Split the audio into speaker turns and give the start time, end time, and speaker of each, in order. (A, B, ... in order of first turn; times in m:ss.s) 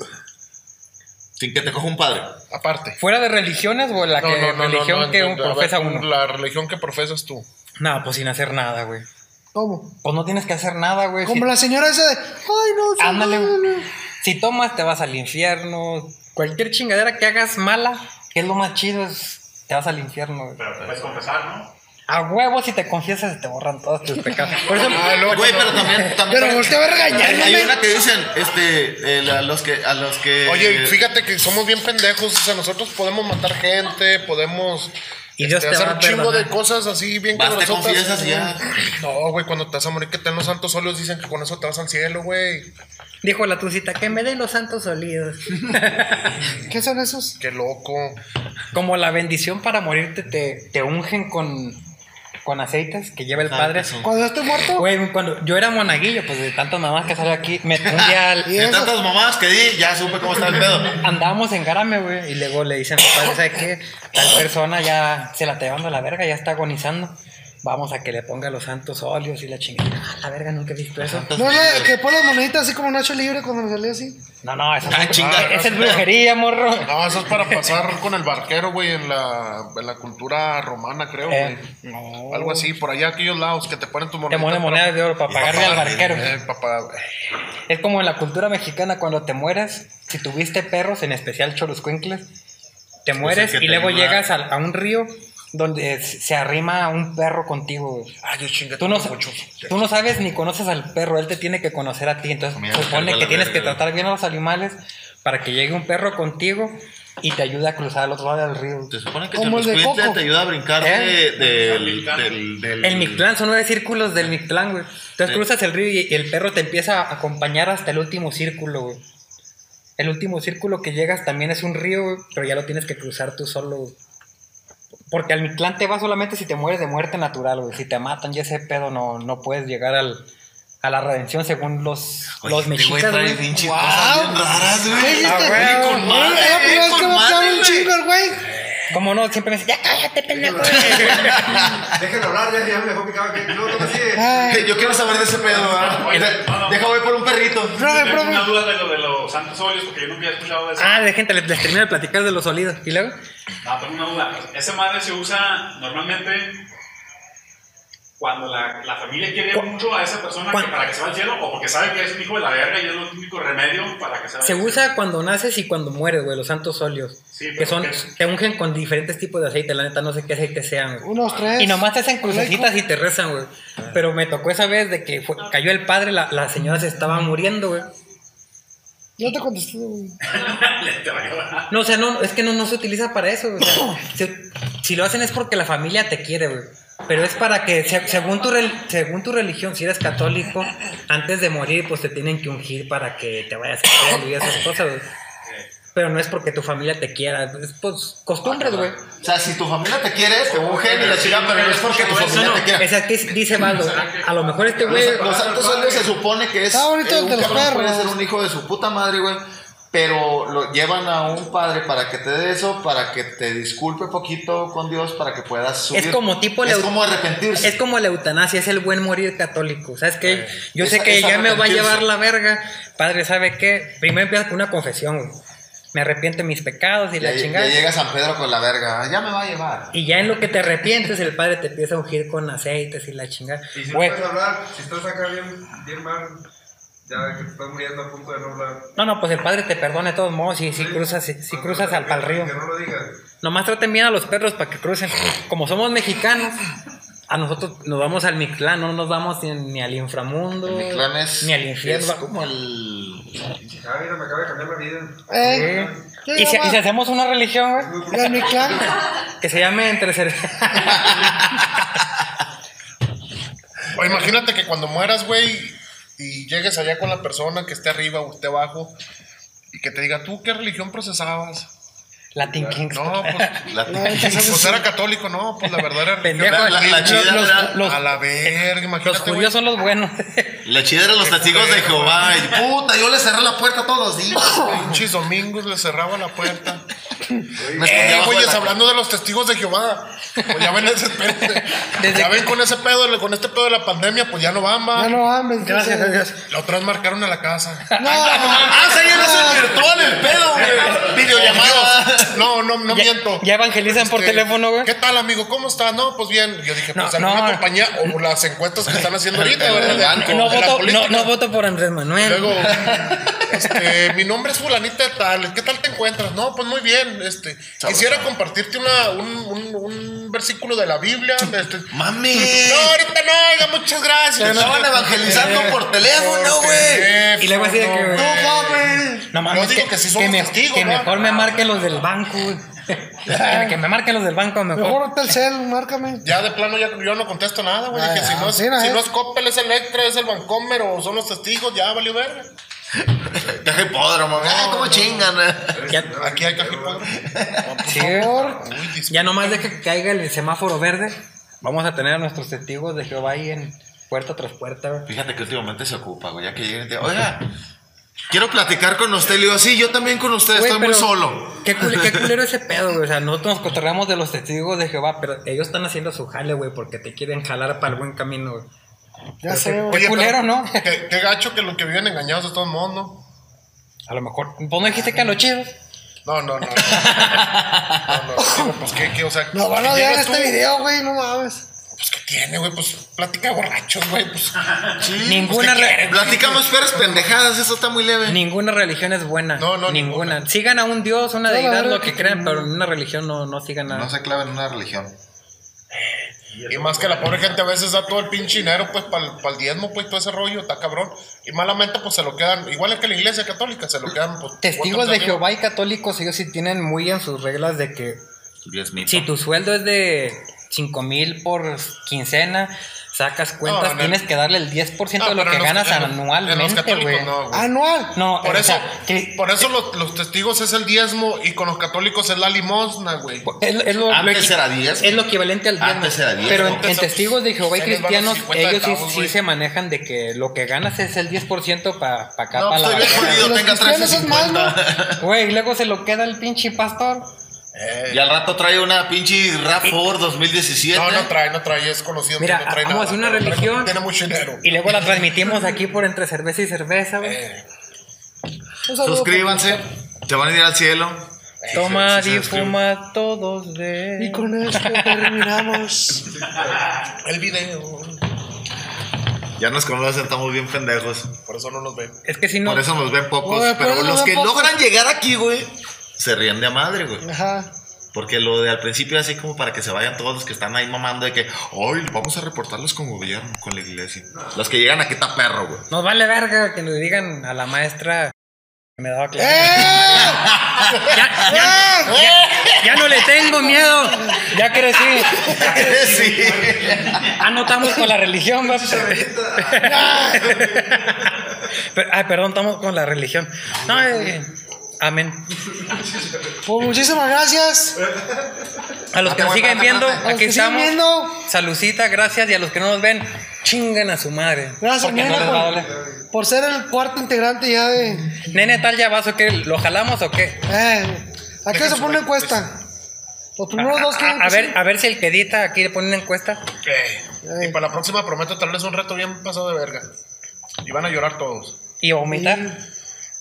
0:01.4-0:02.4 A
0:02.5-0:03.0 B
0:03.0-0:06.1 C
0:04.1-0:07.4 B
0:07.8-0:09.0 C
0:09.5-0:09.9 D
0:10.0-0:11.5 C
0:11.2-0:13.9 D
0:13.0-0:13.6 C
0:14.2-0:20.6 C
0:20.6-0:21.7 E
0:22.1-0:25.1 C
0:24.6-0:24.9 E
0:24.8-0:26.0 B
0:25.2-0:31.0 A
0:26.2-0:27.7 D
0:30.4-0:42.7 B
0:35.4-0:36.5 C
0:37.3-0:38.6 A
0:43.2-0:46.4 C
0:46.5-0:47.4 D
0:47.4-0:48.2 B
0:48.7-0:51.8 C
0:52.4-0:53.9 C
0:53.4-0:54.6 A
0:54.0-0:54.9 D
0:54.8-0:58.5 C
0:57.8-1:01.0 A
0:58.4-0:59.0 D
1:01.0-1:11.3 C
1:11.0-1:12.0 A
1:11.4-1:14.2 D
1:14.4-1:17.5 C
1:14.8-1:16.0 A
1:15.0-1:16.0 B
1:16.8-1:21.6 B
1:21.3-1:22.7 C
1:22.3-1:25.0 B
1:24.3-1:26.3 C
1:25.3-1:26.3 A
1:26.0-1:27.0 B
1:27.7-1:32.2 C
1:33.0-1:38.1 C
1:33.1-1:34.2 A
1:38.2-1:39.9 B
1:38.8-1:48.9 C
1:42.5-1:43.8 A
1:48.9-1:53.2 A
1:49.3-1:50.2 D
1:50.8-1:51.3 C
1:51.4-1:52.3 E
1:52.8-1:59.0 C
2:00.0-2:03.9 C
2:05.1-2:10.2 C
2:10.8-2:13.6 C
2:12.3-2:17.9 A
2:13.6-2:18.4 D
2:15.2-2:16.4 C
2:18.9-2:21.6 C
2:20.3-2:25.9 F
2:20.6-2:21.9 A
2:24.1-2:24.7 D
2:24.4-2:27.8 A
2:25.6-2:27.0 E
2:27.7-2:31.0 E
2:27.8-2:28.7 D
2:30.8-2:33.1 C
2:33.6-2:36.6 E
2:38.2-2:44.9 E
2:40.5-2:40.8 C
2:44.4-2:57.9 C
2:47.3-2:48.1 E
2:51.0-2:52.7 D
2:59.2-3:00.2 D
3:00.2-3:01.7 E
3:01.7-3:15.1 C
3:15.9-3:19.0 C
3:18.4-3:23.0 A
3:20.5-3:22.8 E
3:22.1-3:25.2 C
3:23.5-3:24.8 E
3:24.4-3:26.2 F
3:24.8-3:37.8 A
3:26.7-3:28.2 D
3:35.9-3:36.9 C
3:37.6-3:45.4 C
3:40.2-3:40.6 B
3:40.8-3:42.1 A
3:45.9-3:47.8 C
3:47.2-3:49.9 A
3:49.9-3:54.2 C
3:53.7-3:56.4 F
3:57.0-3:58.9 F
3:59.0-4:02.5 C
4:00.7-4:03.2 F
4:03.4-4:06.6 C
4:07.3-4:12.3 C
4:10.6-4:13.3 A
4:13.6-4:16.0 F
4:15.3-4:16.8 D
4:15.4-4:18.0 C
4:17.8-4:19.0 F
4:18.1-4:18.9 D
4:18.8-4:21.7 C
4:20.9-4:21.6 A
4:23.9-4:29.0 B
4:29.7-4:31.7 B
4:32.3-4:34.4 C
4:32.4-4:32.8 F
4:32.9-4:33.7 B
4:33.6-4:34.6 A
4:33.9-4:34.9 D
4:34.2-4:39.5 B
4:35.6-4:40.6 C
4:36.4-4:37.8 A
4:40.6-4:44.8 A
4:41.2-4:42.5 B
4:44.6-4:46.8 B
4:47.6-4:47.9 F
4:47.6-4:48.8 A
4:47.7-4:55.2 B
4:51.5-4:52.5 C
4:54.9-4:56.2 D
4:55.6-4:56.4 C
4:56.5-4:58.0 B
4:57.9-4:58.8 C
4:58.0-4:59.9 D
4:58.5-5:02.5 A
4:58.6-5:11.3 B
5:02.9-5:04.9 C
5:06.9-5:08.1 C
5:08.9-5:10.6 A
5:09.7-5:12.7 C
5:12.2-5:31.3 B
5:12.6-5:13.4 A
5:17.8-5:18.3 A
5:21.9-5:23.0 A
5:24.4-5:27.2 A
5:24.4-5:25.8 C
5:27.4-5:28.3 C
5:28.1-5:29.3 D
5:29.3-5:35.1 C
5:31.1-5:32.1 E
5:33.2-5:33.8 D
5:34.7-5:36.2 D
5:36.2-5:42.5 B
5:37.9-5:39.1 D
5:43.0-5:45.9 A
5:44.4-5:45.3 B
5:45.7-5:47.1 F
5:45.9-5:46.1 C
5:46.2-5:49.7 B
5:47.1-5:47.9 A
5:47.8-5:48.6 D
5:47.8-5:48.3 C
5:49.1-5:55.1 C
5:55.0-5:57.5 A
5:58.3-6:02.3 A
6:00.5-6:08.7 C
6:09.4-6:10.2 D
6:09.5-6:10.8 C
6:09.9-6:13.2 B
6:14.1-6:15.7 C
6:16.2-6:17.4 B
6:16.9-6:17.5 C
6:17.1-6:18.2 A
6:18.0-6:20.6 B
6:18.4-6:18.7 D
6:19.5-6:21.6 D
6:21.9-6:24.9 B
6:24.9-6:28.4 A
6:25.2-6:26.3 C
6:25.6-6:27.2 B
6:28.2-6:34.1 C
6:29.6-6:30.4 B
6:31.5-6:32.7 D
6:33.9-6:35.2 A
6:36.5-6:37.6 E
6:36.7-6:45.4 B
6:44.6-6:48.2 C
6:48.6-6:49.3 A
6:49.0-6:57.3 C
6:53.6-6:54.2 B
6:55.2-6:57.7 B
6:57.5-6:58.2 D
6:58.1-6:59.7 C
6:58.4-7:03.5 B
7:03.4-7:13.5 C
7:04.1-7:07.0 A
7:06.4-7:09.4 B
7:12.5-7:15.2 A
7:13.1-7:14.8 D
7:15.2-7:17.3 C
7:17.7-7:18.2 B
7:18.1-7:21.3 A
7:20.9-7:24.8 B
7:22.4-7:23.9 C
7:24.6-7:27.4 C
7:27.2-7:27.6 B
7:28.9-7:29.8 D
7:29.0-7:32.7 A
7:31.6-7:32.6 B
7:31.7-7:35.6 C
7:34.2-7:36.3 D
7:36.3-7:36.9 F
7:37.2-7:38.2 B
7:39.6-7:41.4 A
7:41.4-7:42.2 B
7:42.2-7:42.8 C
7:42.6-7:47.3 A
7:43.4-7:44.7 D
7:47.2-7:47.7 D
7:48.1-7:55.8 A
7:55.9-7:58.3 C
7:59.0-8:00.3 C
7:59.4-8:00.5 D
8:00.0-8:01.0 A
8:01.1-8:05.7 C
8:01.4-8:02.2 D
8:02.0-8:03.1 B
8:03.9-8:04.5 D
8:05.3-8:07.4 A
8:05.8-8:07.3 F
8:07.3-8:15.5 C
8:08.6-8:11.4 F
8:09.8-8:10.6 D
8:14.1-8:14.3 F
8:15.8-8:16.5 F
8:16.6-8:18.0 D
8:18.1-8:18.7 F
8:19.1-8:25.9 C
8:19.2-8:20.2 A
8:20.2-8:21.4 D
8:24.8-8:25.8 D
8:25.1-8:25.6 B
8:25.7-8:26.2 F
8:26.3-8:28.4 D
8:28.4-8:30.6 C
8:30.7-8:32.8 D
8:31.7-8:32.7 B
8:33.6-8:34.8 D
8:33.7-8:36.6 C
8:36.8-8:40.1 B
8:37.4-8:37.8 D
8:40.8-8:41.8 B
8:42.0-8:42.6 C
8:42.3-8:42.8 D